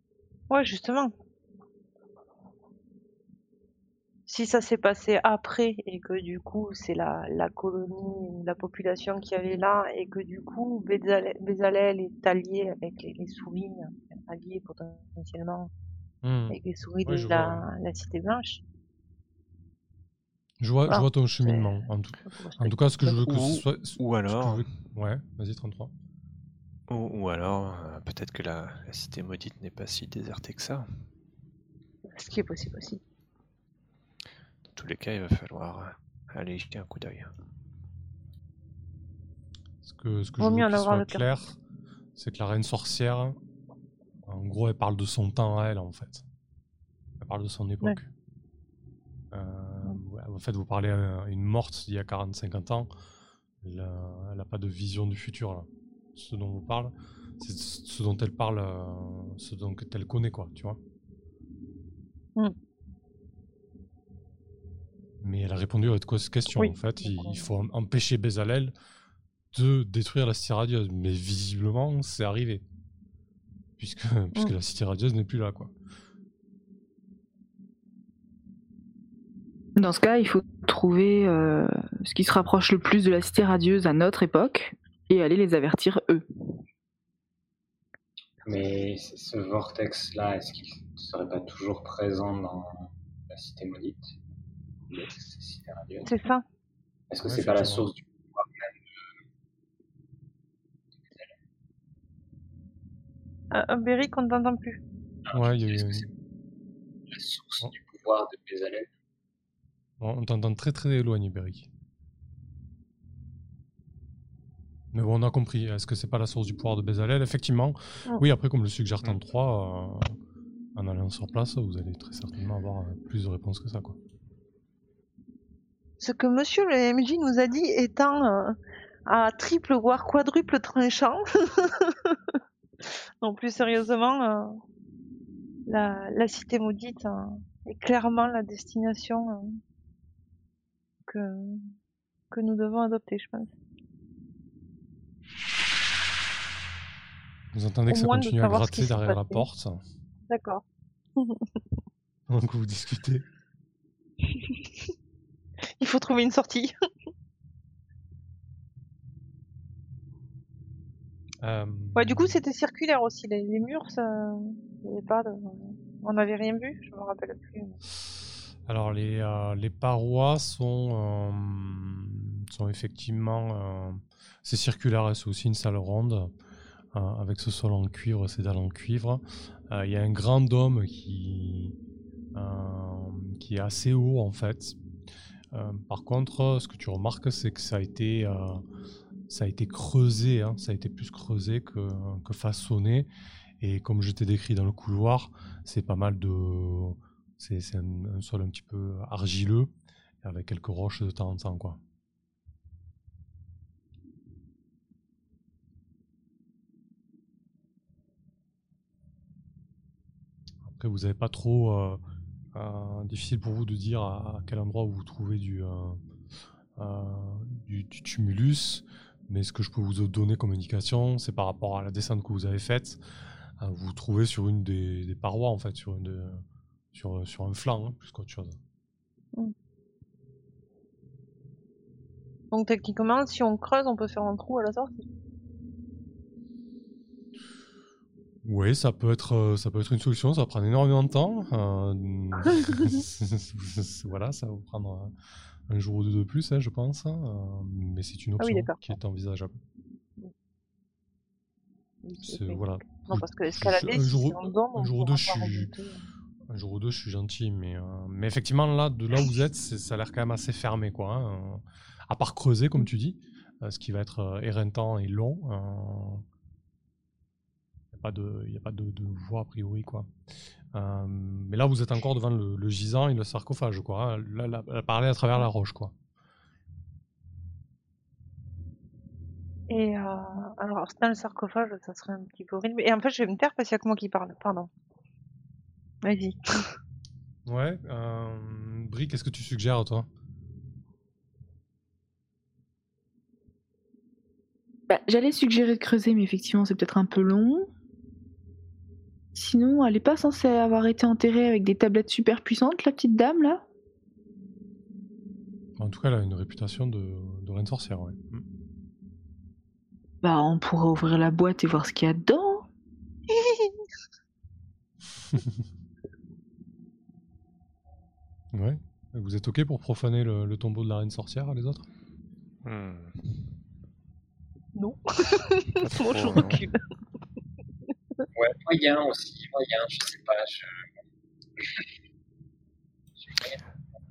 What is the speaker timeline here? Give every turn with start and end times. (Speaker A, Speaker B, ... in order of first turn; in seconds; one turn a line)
Speaker A: 0.5-1.1
Speaker A: 4.3-15.7
Speaker B: 16.2-17.7
Speaker A: 16.5-18.6
Speaker B: 20.6-25.9
Speaker A: 20.9-23.4
Speaker C: 23.4-24.6
Speaker C: 26.9-30.9
Speaker A: 32.1-33.0
Speaker C: 34.7-37.3
Speaker B: 39.8-41.6
Speaker A: 40.4-41.4
Speaker B: 42.2-43.4
Speaker B: 44.3-46.2
Speaker B: 47.2-48.1
Speaker B: 49.3-52.9
Speaker B: 53.6-60.8
Speaker B: 65.2-68.8
Speaker A: 66.6-67.4
Speaker B: 69.5-72.6
Speaker B: 73.8-75.7
Speaker D: 79.8-86.3
Speaker E: 88.5-94.2
Speaker E: 94.9-96.1
Speaker A: 96.1-96.4
Speaker E: 97.1-98.8
Speaker B: 97.2-97.9
Speaker E: 101.0-101.3
Speaker A: 103.5-104.8
Speaker E: 105.3-106.1
Speaker B: 105.3-106.1
Speaker E: 107.1-108.9
Speaker B: 110.0-111.7
Speaker B: 114.9-120.2
Speaker B: 120.8-124.0
Speaker A: 126.0-134.6
Speaker A: 135.7-139.6
Speaker A: 141.1-141.8
Speaker A: 142.3-143.5
Speaker B: 147.5-149.8
Speaker A: 147.9-149.5
Speaker A: 150.3-150.6
Speaker A: 151.2-151.6
Speaker B: 152.3-153.2
Speaker A: 154.3-154.7
Speaker A: 155.8-156.7
Speaker B: 161.4-162.4
Speaker A: 162.0-167.8
Speaker B: 168.7-176.3
Speaker B: 176.9-181.8
Speaker B: 182.3-184.8
Speaker B: 185.5-188.6
Speaker B: 189.3-193.1
Speaker B: 193.6-199.7
Speaker B: 200.2-201.8
Speaker B: 210.6-212.0
Speaker B: 212.5-216.0
Speaker B: 216.8-223.0
Speaker B: 223.6-228.6
Speaker A: 232.5-235.0
Speaker B: 238.4-245.1
Speaker A: 242.6-243.0
Speaker B: 245.7-249.6
Speaker A: 248.4-248.9
Speaker A: 252.0-256.1
Speaker B: 252.2-255.7
Speaker B: 256.5-266.2
Speaker B: 267.9-270.1
Speaker B: 270.7-275.9
Speaker A: 279.7-284.7
Speaker A: 286.0-286.7
Speaker B: 287.5-290.1
Speaker D: 294.9-297.7
Speaker D: 299.3-303.6
Speaker B: 305.8-308.4
Speaker D: 310.2-312.7
Speaker A: 313.3-313.8
Speaker B: 315.3-315.6
Speaker B: 318.5-321.9
Speaker C: 322.6-323.5
Speaker A: 324.8-326.8
Speaker C: 325.8-326.6
Speaker E: 328.4-330.9
Speaker E: 331.6-331.9
Speaker E: 333.2-333.6